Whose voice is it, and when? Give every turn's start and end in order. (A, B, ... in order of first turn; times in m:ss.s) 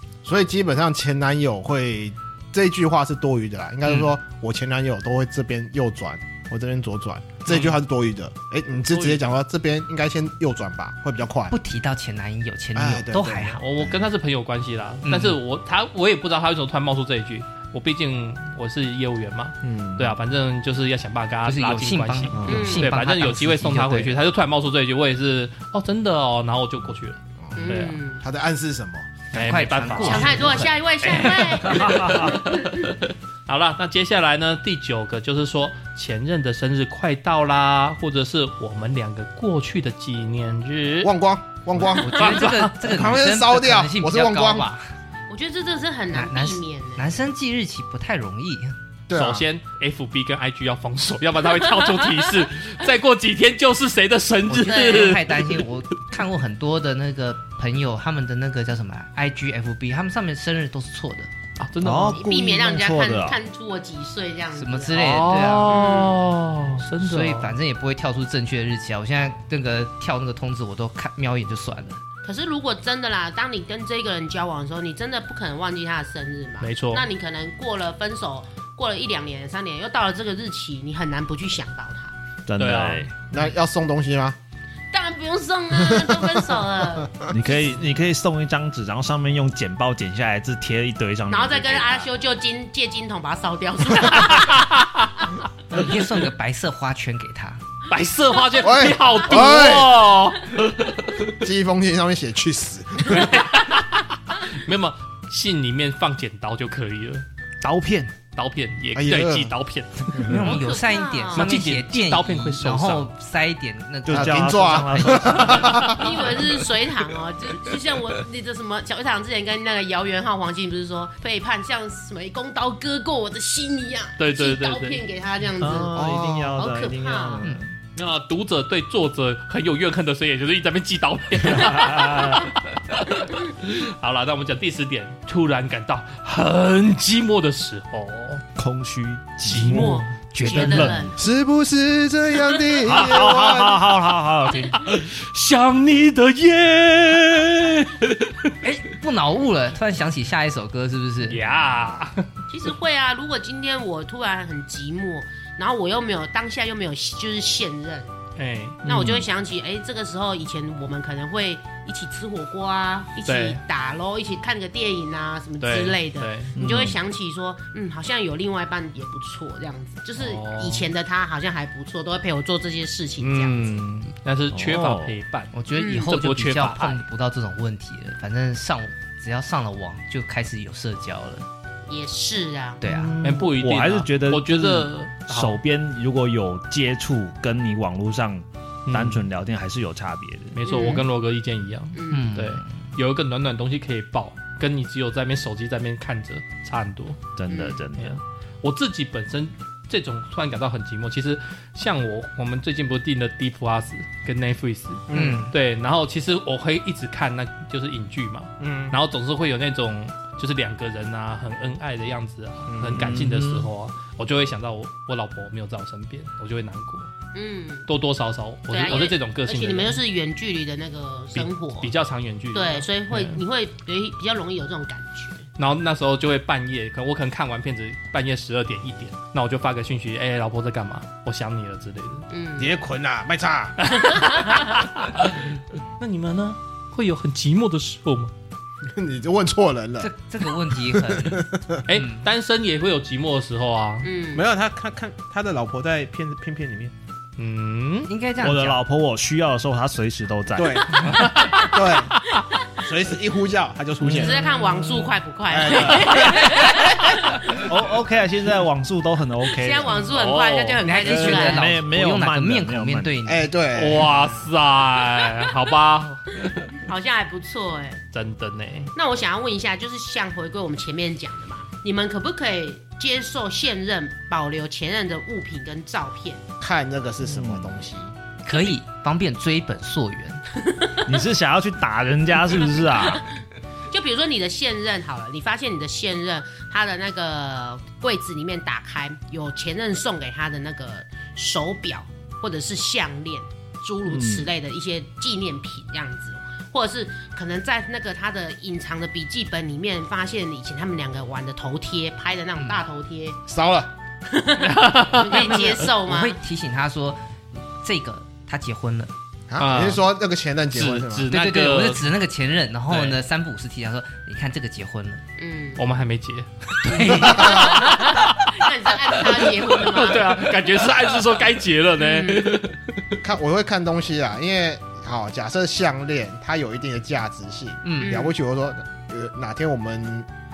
0:00.2-0:11.5 A
0:07.5-0:07.8 B
0:08.9-0:09.2 B
0:11.5-0:13.6 C
0:12.7-0:14.0 A
0:13.6-0:28.0 B
0:15.0-0:15.4 C
0:19.6-0:20.1 A
0:21.4-0:24.2 C
0:22.4-0:22.6 D
0:22.4-0:22.9 E
0:27.4-0:29.2 A
0:27.6-0:28.2 E
0:29.3-0:30.8 C
0:29.3-0:41.1 B
0:30.0-0:32.9 E
0:31.6-0:32.4 D
0:41.0-0:44.7 A
0:41.8-0:44.8 C
0:42.0-0:42.7 B
0:45.3-0:47.1 E
0:46.1-0:48.8 C
0:49.1-0:49.4 A
0:49.1-0:55.6 B
0:54.5-1:01.3 C
0:54.6-0:55.2 E
1:01.6-1:02.2 B
1:01.8-1:03.4 D
1:02.1-1:05.0 E
1:04.5-1:05.7 C
1:04.9-1:07.5 B
1:05.6-1:06.2 E
1:07.0-1:12.0 C
1:12.2-1:22.1 E
1:16.6-1:17.0 B
1:22.5-1:23.2 D
1:22.6-1:23.1 B
1:23.3-1:24.4 A
1:24.9-1:27.5 E
1:25.8-1:26.2 A
1:27.3-1:32.1 D
1:31.3-1:34.6 E
1:34.1-1:35.1 B
1:35.7-1:37.6 C
1:37.9-1:41.3 B
1:38.6-1:39.9 A
1:41.4-1:43.3 A
1:43.0-1:47.2 B
1:47.6-1:48.2 D
1:48.3-1:50.7 B
1:48.9-1:49.5 A
1:50.2-1:55.8 C
1:50.4-1:51.5 E
1:51.3-1:53.1 B
1:54.0-1:56.0 D
1:54.1-1:56.2 A
1:56.0-2:07.4 E
2:04.2-2:05.0 B
2:05.6-2:07.8 D
2:07.9-2:18.4 B
2:11.4-2:12.5 D
2:18.6-2:21.1 D
2:19.4-2:20.1 B
2:19.6-2:21.1 E
2:20.4-2:21.0 C
2:21.2-2:23.8 A
2:22.8-2:24.9 D
2:24.7-2:28.5 B
2:28.6-2:31.4 C
2:31.2-2:32.3 B
2:32.5-2:38.1 E
2:38.4-2:38.8 B
2:38.8-2:39.2 D
2:38.8-2:53.7 E
2:43.2-2:43.6 B
2:45.6-2:46.5 B
2:46.6-2:47.0 D
2:50.2-2:50.9 B
2:53.2-2:57.0 B
2:54.5-2:55.2 D
2:55.5-3:01.4 C
2:55.8-2:56.1 E
3:01.9-3:02.8 E
3:02.8-3:03.2 C
3:02.8-3:10.6 D
3:03.2-3:05.6 B
3:08.9-3:09.2 B
3:10.5-3:17.2 B
3:10.6-3:11.0 E
3:11.9-3:12.3 E
3:12.1-3:12.6 C
3:17.4-3:18.2 D
3:17.5-3:17.8 E
3:18.0-3:37.1 B
3:25.1-3:25.4 A
3:25.1-3:25.5 C
3:28.6-3:29.0 A
3:32.7-3:33.1 A
3:33.0-3:33.7 D
3:37.3-3:37.9 E
3:37.9-3:40.0 B
3:38.7-3:41.9 E
3:41.3-3:43.4 B
3:42.5-3:45.4 E
3:45.6-3:52.2 B
3:52.3-3:52.7 E
3:52.6-3:53.8 A
3:53.8-3:58.3 B
3:53.9-3:54.7 E
3:58.9-4:00.1 A
4:00.0-4:02.2 C
4:00.6-4:01.8 A
4:01.9-4:04.1 B
4:04.0-4:04.4 E
4:04.3-4:06.9 A
4:07.4-4:08.1 B
4:08.0-4:08.8 C
4:08.4-4:11.0 D
4:10.5-4:12.1 A
4:11.0-4:12.4 B
4:11.2-4:11.6 E
4:12.8-4:14.4 A
4:14.0-4:14.4 D
4:14.1-4:17.7 E
4:15.5-4:16.6 A
4:17.6-4:20.0 D
4:19.5-4:21.8 E
4:19.9-4:21.0 B
4:20.8-4:23.5 C
4:21.0-4:23.2 D
4:23.2-4:24.4 A
4:23.7-4:26.8 B
4:26.7-4:28.0 E
4:28.1-4:28.9 B
4:28.9-4:36.4 E
4:36.6-4:38.1 A
4:37.2-4:37.8 D
4:38.4-4:40.4 C
4:38.5-4:38.7 E
4:41.1-4:43.2 D
4:43.9-5:03.4 E
4:54.1-4:54.5 D
5:03.5-5:03.9 A
5:04.3-5:06.4 E
5:04.6-5:05.9 B
5:06.0-5:07.2 C
5:07.8-5:09.1 C
5:09.5-5:11.3 A
5:09.6-5:10.0 B
5:10.7-5:12.1 B
5:11.3-5:15.2 C
5:12.9-5:13.2 B
5:15.4-5:15.8 E
5:15.8-5:22.9 B
5:16.8-5:17.7 C
5:17.0-5:17.8 A
5:17.1-5:20.4 E
5:22.0-5:22.6 E
5:23.2-5:30.3 A
5:27.8-5:28.3 C
5:28.0-5:28.4 E